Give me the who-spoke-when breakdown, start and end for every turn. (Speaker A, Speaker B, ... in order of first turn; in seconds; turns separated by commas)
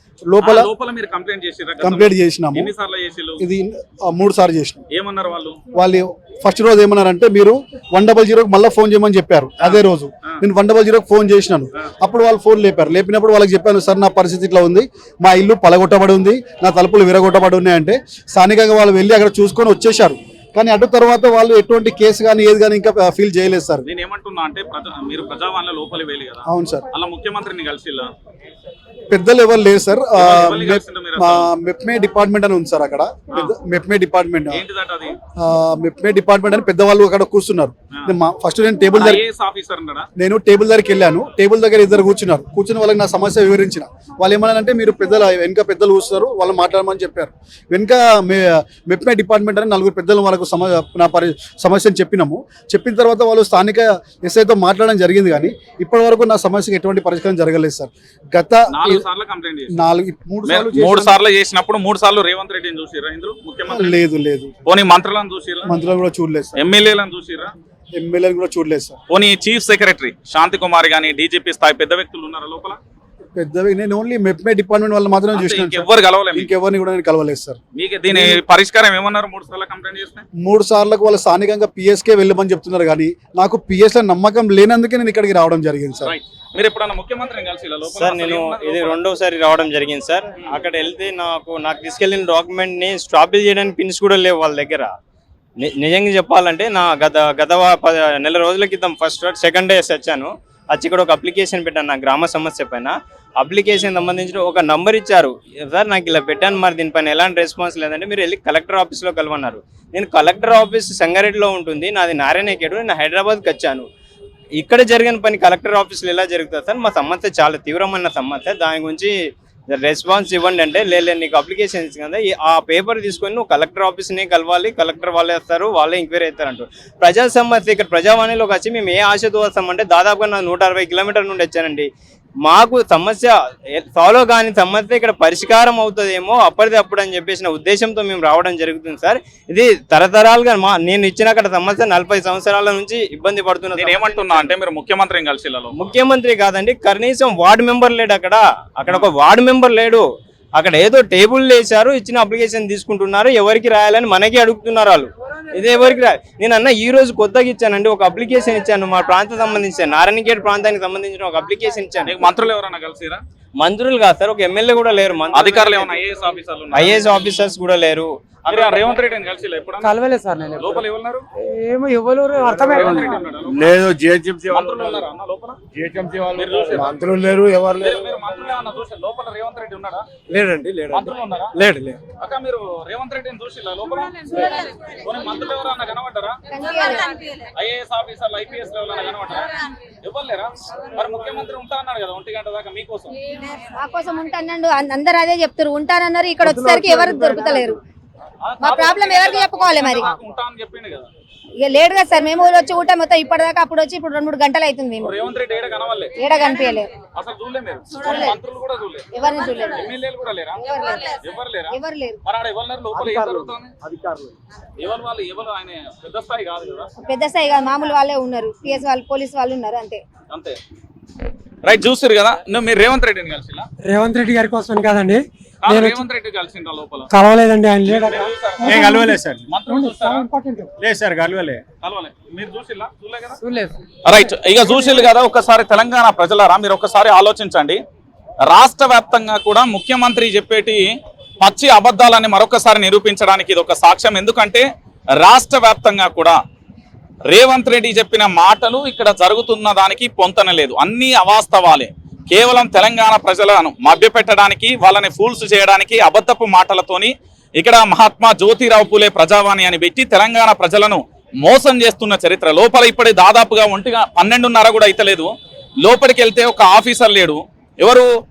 Speaker A: 0.3-0.7, Speaker B: 0.4-3.4, Speaker A: 1.8-2.7, Speaker A: 3.4-4.8, Speaker B: 4.9-5.6, Speaker A: 5.7-23.9, Speaker B: 9.6-10.4, Speaker B: 23.8-28.1, Speaker A: 26.5-26.8, Speaker A: 29.1-34.6, Speaker B: 30.1-31.5, Speaker B: 34.5-35.2, Speaker A: 35.4-39.2, Speaker B: 39.0-40.1, Speaker A: 40.2-59.0, Speaker B: 58.7-59.7, Speaker A: 59.7-61.2, Speaker B: 60.5-64.0, Speaker A: 63.7-64.5, Speaker B: 64.7-65.7, Speaker A: 65.7-66.6, Speaker B: 66.5-67.5, Speaker A: 67.9-69.0, Speaker B: 69.1-72.8, Speaker A: 73.3-78.4, Speaker B: 75.3-76.5, Speaker B: 77.7-80.2, Speaker A: 80.4-86.1, Speaker B: 86.0-89.0, Speaker C: 87.9-94.9, Speaker C: 95.6-113.8, Speaker C: 114.6-119.1, Speaker C: 119.7-131.9, Speaker C: 132.4-144.5, Speaker B: 143.8-145.8, Speaker C: 145.8-162.1, Speaker B: 162.1-163.2, Speaker C: 163.6-166.0, Speaker B: 165.3-167.0, Speaker C: 166.7-168.9, Speaker B: 168.5-169.9, Speaker D: 169.8-170.8, Speaker B: 170.5-171.2, Speaker D: 171.4-173.2, Speaker B: 172.6-173.8, Speaker E: 173.4-175.0, Speaker B: 174.5-175.6, Speaker E: 175.7-177.9, Speaker B: 176.3-177.0, Speaker B: 177.7-180.1, Speaker E: 180.3-182.0, Speaker B: 180.9-181.6, Speaker B: 182.2-186.4, Speaker F: 186.5-187.2, Speaker B: 187.5-193.1, Speaker F: 193.6-197.8, Speaker E: 196.5-197.2, Speaker B: 198.4-201.1, Speaker F: 198.6-200.1, Speaker F: 201.6-205.1, Speaker B: 205.0-206.2, Speaker F: 206.2-206.9, Speaker B: 207.1-209.1, Speaker F: 208.0-208.3, Speaker F: 209.1-209.9, Speaker B: 209.7-213.7, Speaker F: 210.6-211.2, Speaker F: 211.7-212.2, Speaker E: 213.0-214.3, Speaker B: 214.8-216.9, Speaker F: 217.0-220.0, Speaker B: 220.3-220.6, Speaker B: 221.6-223.7, Speaker D: 223.8-226.0, Speaker B: 225.6-227.1, Speaker D: 227.1-230.7, Speaker B: 227.8-230.3, Speaker E: 228.6-229.4, Speaker E: 230.8-231.6, Speaker B: 231.8-233.4, Speaker D: 233.4-233.8, Speaker B: 234.0-237.8, Speaker B: 238.4-244.7, Speaker B: 245.2-246.4, Speaker B: 247.2-268.1